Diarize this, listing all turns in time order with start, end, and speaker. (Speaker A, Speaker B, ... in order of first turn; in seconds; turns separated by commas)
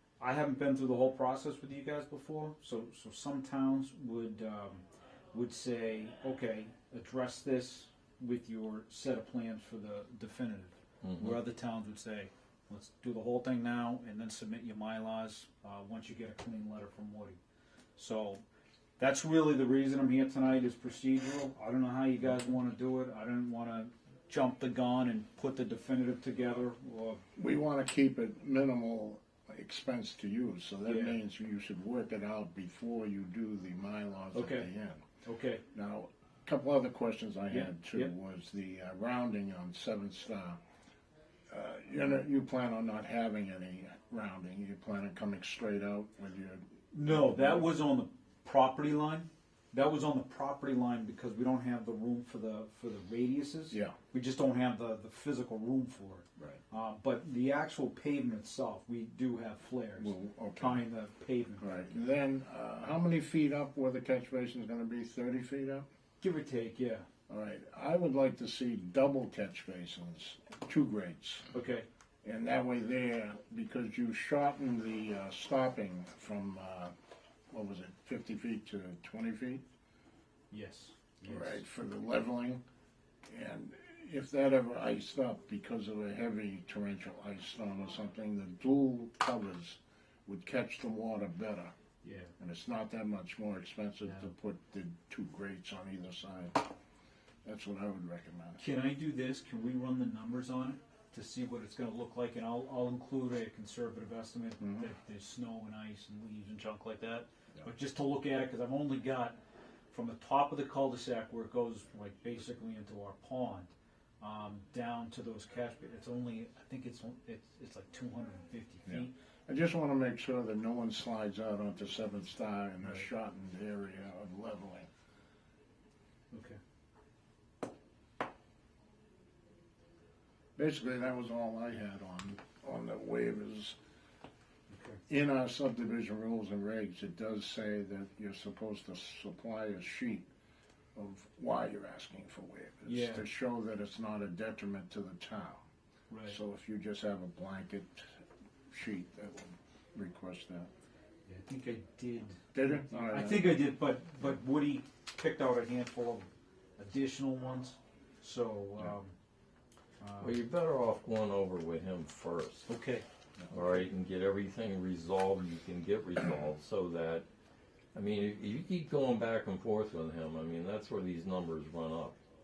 Speaker A: 0.2-17.4, Speaker B: 11.0-11.4, Speaker A: 18.0-18.4, Speaker A: 19.0-27.2, Speaker C: 27.4-35.0, Speaker A: 30.9-31.2, Speaker A: 34.3-34.7, Speaker A: 35.2-35.6, Speaker C: 35.7-40.6, Speaker A: 37.5-38.1, Speaker C: 41.5-47.7, Speaker A: 46.9-61.7, Speaker C: 60.0-60.8, Speaker C: 61.6-65.8, Speaker A: 66.2-67.1, Speaker C: 67.3-71.5, Speaker A: 71.5-71.9, Speaker C: 72.2-76.9, Speaker C: 77.5-79.6, Speaker A: 80.5-81.6, Speaker C: 81.3-82.6, Speaker C: 83.3-91.7, Speaker A: 92.0-92.3, Speaker C: 92.4-96.6, Speaker A: 94.0-94.3, Speaker C: 97.4-98.6, Speaker A: 98.6-109.4, Speaker C: 104.6-104.9, Speaker A: 109.9-119.1, Speaker C: 118.9-124.9, Speaker A: 126.3-126.6, Speaker C: 130.6-133.8, Speaker A: 134.7-135.0, Speaker C: 135.1-140.3, Speaker C: 140.9-145.6, Speaker A: 142.9-143.2, Speaker A: 146.1-146.4, Speaker C: 146.3-148.1, Speaker C: 148.7-150.7, Speaker A: 151.3-159.1, Speaker C: 152.5-153.6, Speaker A: 160.0-160.4, Speaker B: 160.2-162.7, Speaker A: 162.7-163.1, Speaker B: 163.5-167.3, Speaker B: 167.9-172.2